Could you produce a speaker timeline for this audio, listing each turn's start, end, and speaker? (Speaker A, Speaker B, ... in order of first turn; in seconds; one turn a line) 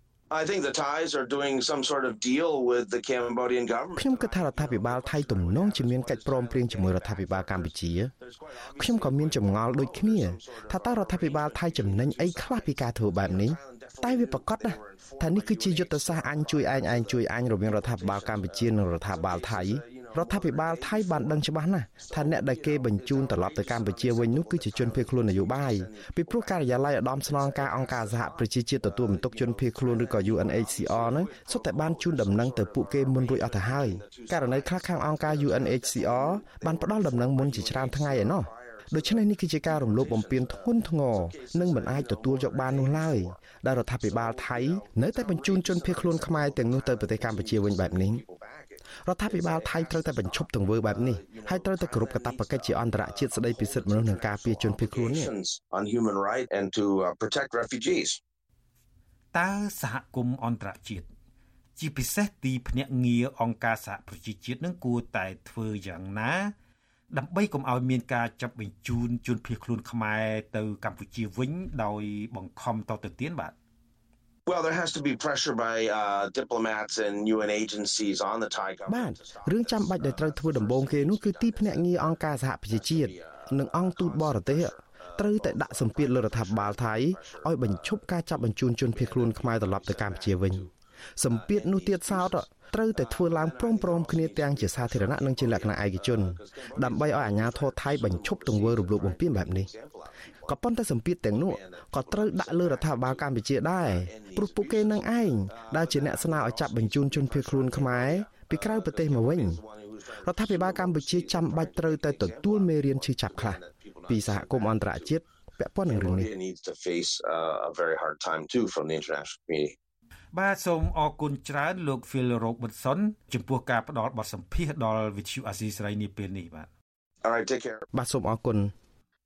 Speaker A: 0.3-21.5
Speaker B: 4.0-8.1
Speaker B: 8.7-48.2
Speaker A: 22.0-58.2
Speaker B: 49.0-55.3
Speaker C: 59.3-61.1
Speaker C: 61.8-66.5
Speaker C: 67.1-73.5
Speaker A: 74.5-88.0
Speaker B: 78.9-99.7
Speaker A: 88.9-90.7
Speaker A: 91.3-100.5
Speaker B: 100.5-109.6
Speaker A: 101.3-115.2
Speaker B: 110.2-116.3
Speaker A: 115.8-119.7
Speaker C: 120.3-126.7
Speaker A: 127.2-127.9
Speaker B: 127.9-128.7